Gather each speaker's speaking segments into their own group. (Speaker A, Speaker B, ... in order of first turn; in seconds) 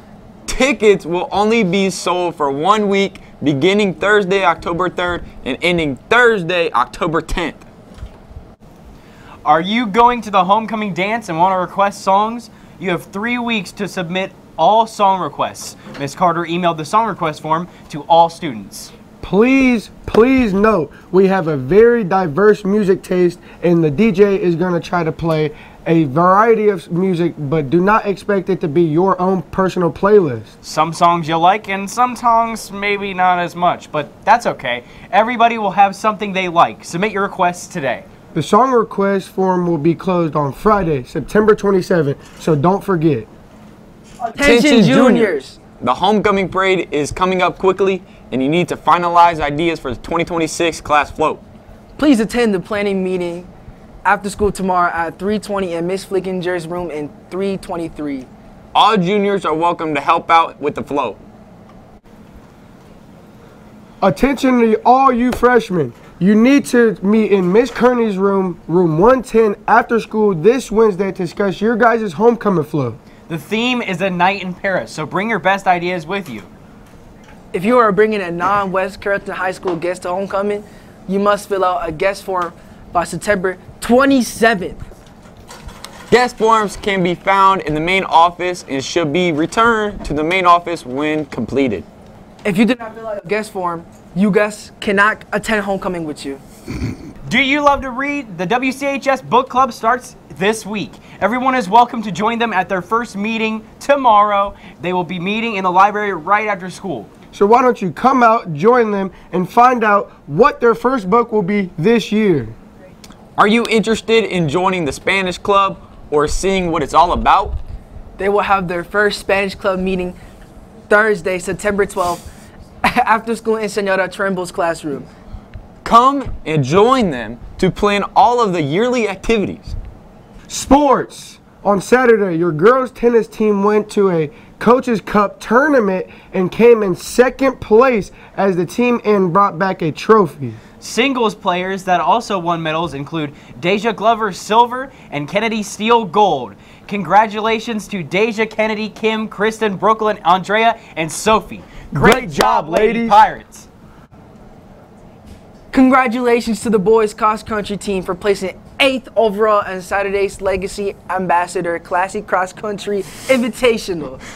Speaker A: 0.5-7.6, 44.4-51.4, 58.7-61.2, 86.1-91.8, 113.4-117.6, 125.8-129.8
Speaker B: 9.4-18.9, 30.6-38.0, 73.3-76.5, 97.2-107.1, 140.8-153.7
Speaker C: 19.2-30.5, 38.3-43.3, 64.0-73.0, 107.3-112.5, 130.5-140.6, 151.9-153.2
Speaker D: 44.2-45.6, 52.0-53.5, 54.0-58.3, 77.5-84.8, 92.4-96.4, 118.2-120.2, 120.9-122.3, 122.8-125.1, 155.7-164.2